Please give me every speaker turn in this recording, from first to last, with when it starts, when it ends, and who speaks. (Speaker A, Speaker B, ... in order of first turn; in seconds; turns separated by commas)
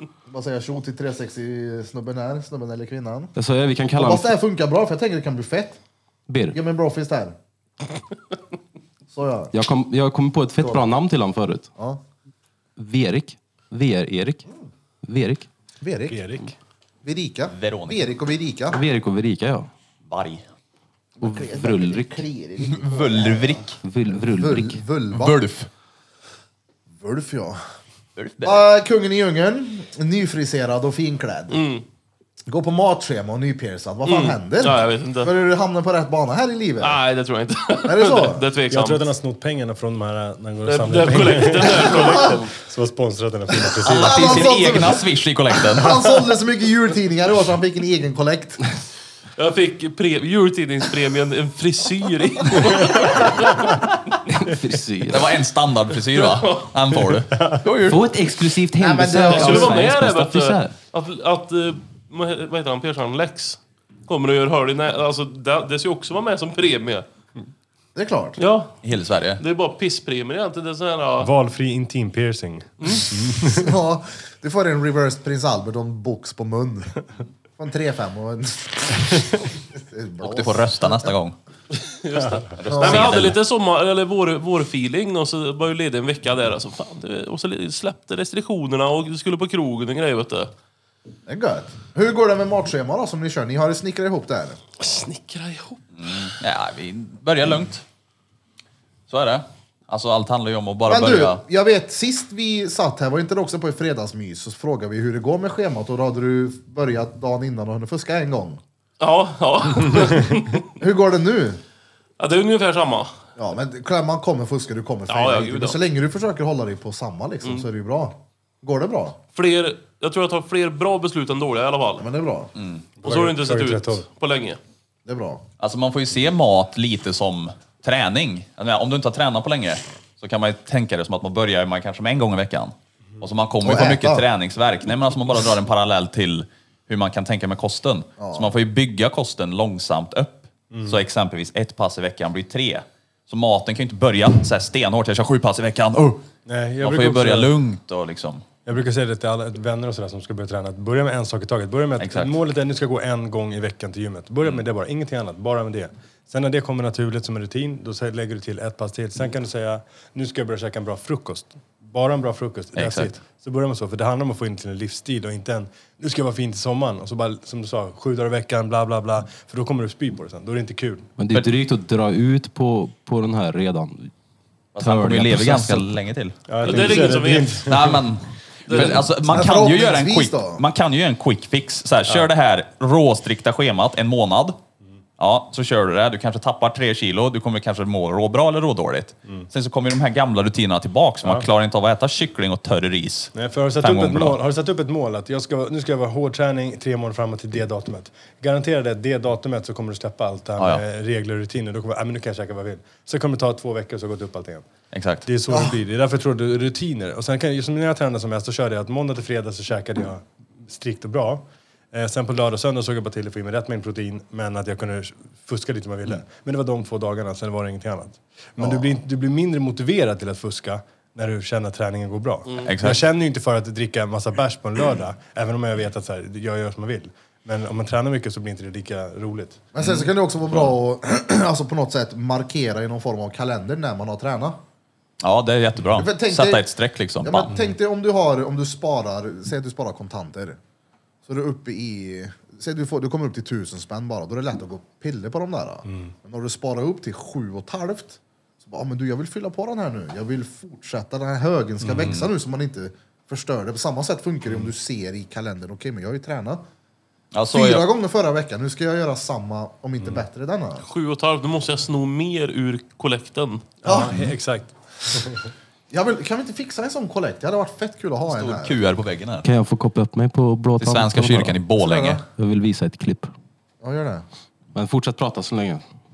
Speaker A: 0.3-3.3, Speaker B: 3.4-4.3, Speaker A: 4.0-5.8, Speaker B: 6.3-6.6, Speaker A: 6.5-7.3, Speaker A: 9.1-9.5, Speaker B: 9.5-11.7, Speaker B: 12.8-14.5, Speaker B: 15.0-15.5, Speaker A: 15.8-16.2, Speaker C: 16.1-16.6, Speaker A: 17.0-18.8, Speaker D: 17.5-18.0, Speaker B: 18.7-19.7, Speaker D: 20.1-20.4, Speaker A: 21.2-23.6, Speaker B: 21.2-22.3, Speaker D: 22.7-23.8, Speaker B: 23.8-24.8, Speaker A: 24.4-25.4, Speaker D: 25.1-25.7, Speaker A: 27.0-27.7, Speaker D: 28.2-28.6, Speaker A: 28.4-31.6, Speaker E: 31.5-31.8, Speaker A: 32.5-37.0, Speaker E: 34.1-35.3, Speaker E: 36.8-39.0, Speaker A: 37.9-38.4, Speaker C: 38.7-44.6, Speaker E: 40.6-42.4, Speaker D: 43.8-45.9, Speaker A: 43.9-48.6, Speaker E: 49.4-53.7, Speaker B: 54.3-55.4, Speaker D: 55.1-58.0, Speaker E: 56.1-56.7, Speaker C: 57.3-57.6, Speaker B: 57.9-60.8, Speaker A: 58.8-59.9, Speaker E: 59.3-67.0, Speaker A: 68.0-68.4, Speaker E: 68.4-68.8, Speaker D: 68.8-69.4, Speaker E: 69.4-71.3, Speaker C: 71.2-73.7, Speaker E: 72.8-73.1, Speaker A: 73.5-77.0, Speaker A: 77.6-81.2, Speaker D: 80.2-81.4, Speaker E: 82.0-90.5, Speaker D: 82.6-83.4, Speaker A: 82.7-83.2, Speaker A: 91.3-94.6, Speaker E: 94.8-95.8, Speaker D: 96.0-97.8, Speaker D: 99.1-101.4, Speaker A: 100.9-108.6, Speaker E: 109.0-110.6, Speaker A: 110.8-111.6, Speaker E: 112.2-113.2, Speaker A: 113.4-119.2, Speaker E: 115.1-115.8, Speaker E: 119.3-122.0, Speaker A: 122.0-122.5, Speaker D: 122.6-122.9, Speaker C: 123.0-124.1, Speaker E: 123.0-124.6, Speaker A: 125.1-125.4, Speaker D: 125.6-146.3, Speaker A: 133.6-134.2, Speaker A: 138.2-138.6, Speaker C: 140.7-141.0, Speaker C: 146.5-147.5, Speaker D: 146.8-148.5, Speaker C: 148.7-171.1, Speaker D: 152.0-152.3, Speaker D: 162.8-163.1, Speaker B: 171.2-174.1, Speaker D: 174.8-177.1, Speaker B: 174.8-175.9, Speaker C: 176.5-178.0, Speaker E: 176.6-177.7, Speaker D: 177.7-184.6, Speaker E: 178.7-179.1, Speaker A: 179.3-180.6, Speaker D: 185.2-194.4, Speaker C: 193.3-204.7, Speaker D: 200.6-200.8, Speaker D: 204.9-205.3, Speaker C: 205.2-229.7, Speaker A: 205.5-205.8, Speaker A: 218.6-218.9, Speaker D: 222.7-223.0, Speaker A: 229.7-234.6, Speaker D: 229.8-230.7, Speaker D: 235.2-237.5, Speaker A: 236.0-236.7, Speaker A: 237.2-240.6, Speaker A: 241.3-256.6, Speaker C: 245.9-246.1, Speaker C: 251.8-252.1, Speaker D: 252.0-252.3, Speaker D: 257.3-257.8, Speaker A: 257.5-260.8, Speaker E: 260.9-263.8, Speaker C: 263.8-265.5, Speaker A: 263.9-264.1, Speaker A: 265.9-268.8, Speaker D: 268.3-269.5, Speaker B: 269.4-271.6, Speaker D: 270.8-272.2, Speaker A: 271.8-272.2, Speaker B: 272.4-273.3, Speaker A: 273.8-274.3, Speaker B: 274.8-275.8